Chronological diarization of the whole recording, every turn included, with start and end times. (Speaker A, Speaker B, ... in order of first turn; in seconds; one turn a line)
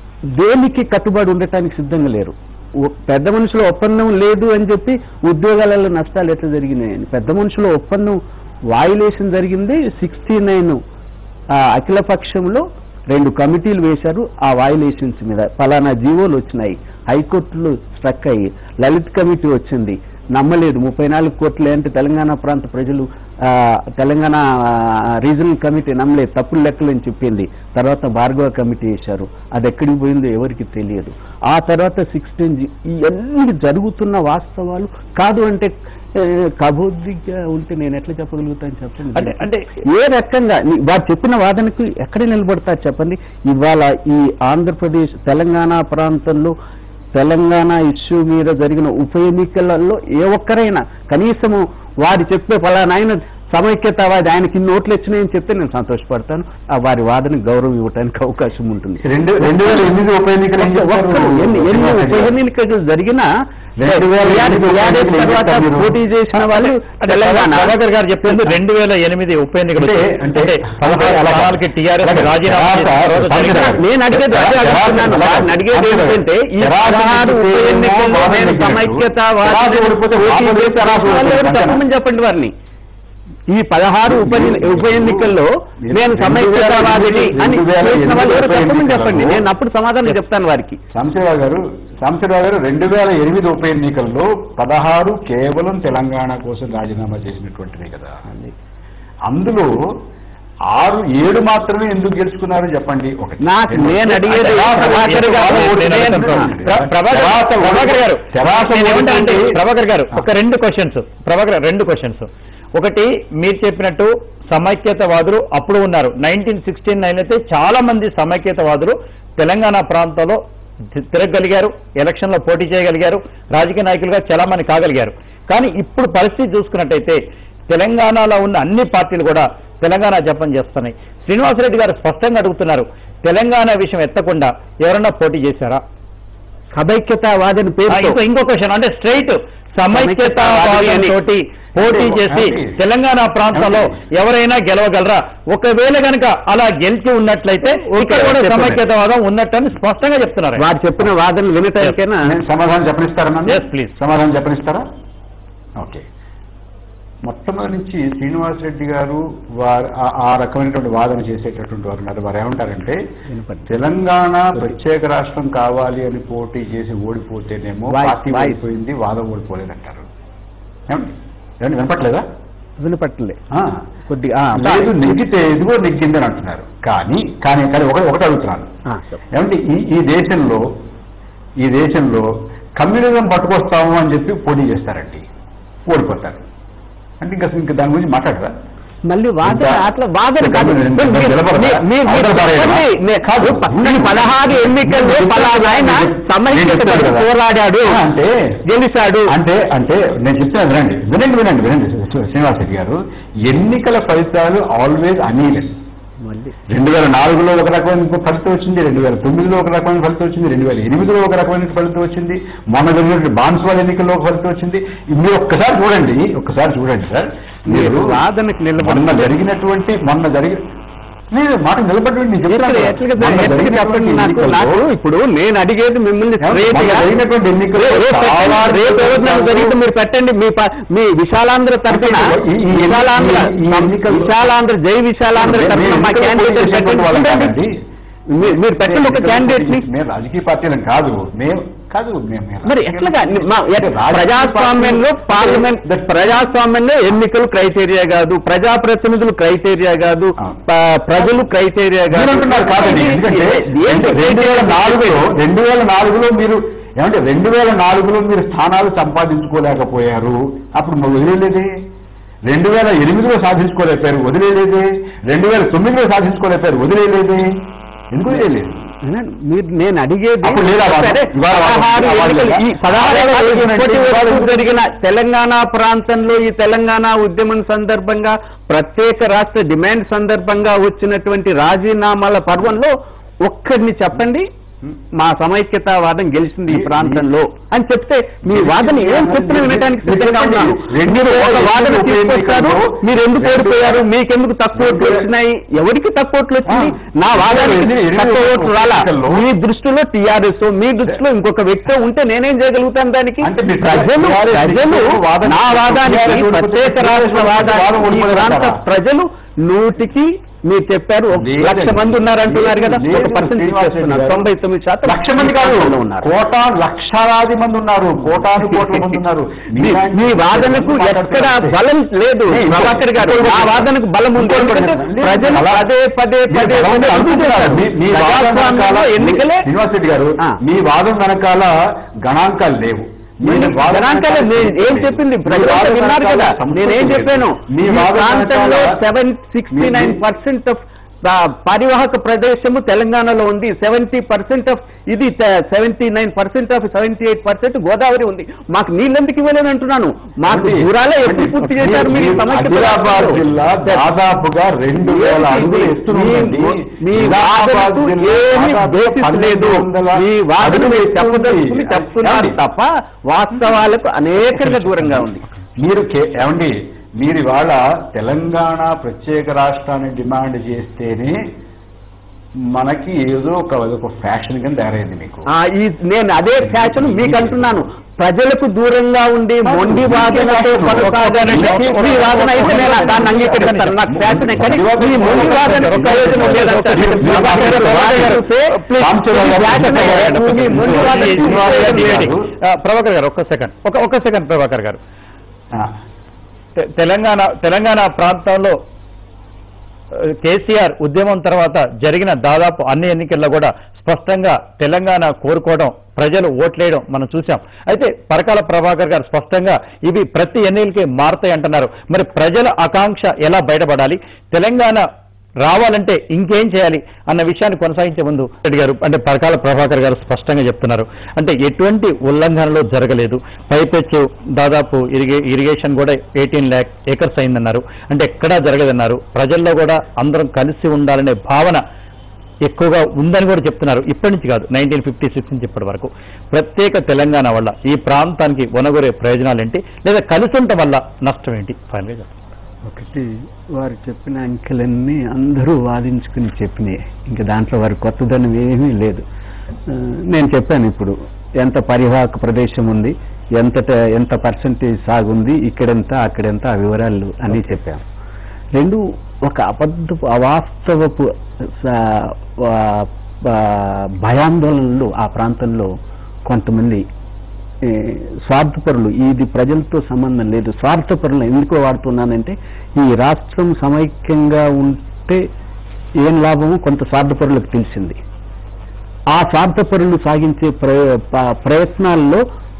Speaker A: 0.3-8.2
Speaker A: 8.7-10.8
Speaker A: 11.5-46.5
Speaker B: 39.1-39.7
Speaker A: 47.1-59.9
Speaker C: 59.0-62.3
Speaker A: 60.6-63.3
Speaker C: 63.8-66.0
Speaker A: 63.9-68.5
Speaker B: 66.4-73.8
Speaker C: 69.8-81.8
Speaker A: 73.7-82.5
Speaker A: 83.5-90.8
Speaker C: 84.1-89.4
Speaker C: 90.9-98.3
Speaker C: 99.3-100.0
Speaker C: 100.7-109.5
Speaker A: 103.4-106.5
Speaker B: 104.3-120.4
Speaker B: 120.9-135.8
Speaker A: 136.8-138.2
Speaker B: 137.9-150.6
Speaker A: 139.9-141.1
Speaker C: 141.8-142.8
Speaker C: 143.5-143.9
Speaker A: 147.7-148.8
Speaker A: 150.6-152.3
Speaker C: 152.2-154.8
Speaker B: 153.5-153.9
Speaker C: 155.8-156.1
Speaker C: 157.2-163.0
Speaker A: 163.3-163.7
Speaker C: 163.7-170.1
Speaker A: 167.9-168.6
Speaker C: 170.9-172.2
Speaker A: 172.8-173.4
Speaker C: 173.5-173.8
Speaker A: 174.1-174.9
Speaker C: 174.6-178.7
Speaker A: 178.9-179.1
Speaker C: 179.3-180.7
Speaker C: 181.6-185.2
Speaker C: 185.8-186.4
Speaker C: 187.2-188.5
Speaker A: 189.1-198.0
Speaker C: 189.4-189.8
Speaker C: 190.4-192.8
Speaker C: 193.4-197.3
Speaker C: 197.8-198.6
Speaker A: 198.7-199.3
Speaker C: 199.3-205.8
Speaker A: 206.2-206.6
Speaker C: 206.7-218.2
Speaker A: 217.7-219.3
Speaker C: 218.8-220.6
Speaker C: 221.3-224.8
Speaker A: 222.5-227.1
Speaker C: 226.4-229.8
Speaker A: 227.7-237.6
Speaker C: 231.9-234.3
Speaker C: 235.3-237.7
Speaker A: 238.3-239.8
Speaker C: 238.4-245.7
Speaker A: 242.6-255.3
Speaker C: 252.1-261.7
Speaker C: 262.5-267.5
Speaker C: 268.1-268.8
Speaker A: 269.0-282.9
Speaker C: 270.4-274.8
Speaker A: 283.4-284.5
Speaker A: 285.1-316.3
Speaker C: 286.7-287.2
Speaker C: 288.4-294.0
Speaker C: 294.7-295.3
Speaker C: 296.7-299.4
Speaker C: 303.4-308.8
Speaker C: 311.3-314.5
Speaker C: 315.0-321.8
Speaker A: 318.7-319.1
Speaker A: 319.8-329.7
Speaker C: 322.5-325.9
Speaker C: 326.5-331.7
Speaker C: 332.2-339.0
Speaker A: 333.4-354.0
Speaker C: 339.7-340.2
Speaker C: 350.5-362.6
Speaker A: 355.0-365.4
Speaker C: 365.0-365.2
Speaker C: 365.8-371.4
Speaker C: 372.7-375.5
Speaker A: 375.5-392.2
Speaker C: 376.6-377.9
Speaker C: 379.6-388.4
Speaker B: 380.9-383.9
Speaker B: 384.6-388.8
Speaker C: 389.0-392.5
Speaker B: 389.7-395.0
Speaker B: 396.8-398.8
Speaker B: 400.1-415.1
Speaker B: 415.6-431.8
Speaker B: 432.6-442.4
Speaker A: 442.9-449.2
Speaker A: 449.9-458.0
Speaker A: 458.8-465.9
Speaker A: 466.5-467.1
Speaker A: 467.8-475.5
Speaker A: 476.2-478.2
Speaker A: 479.3-482.4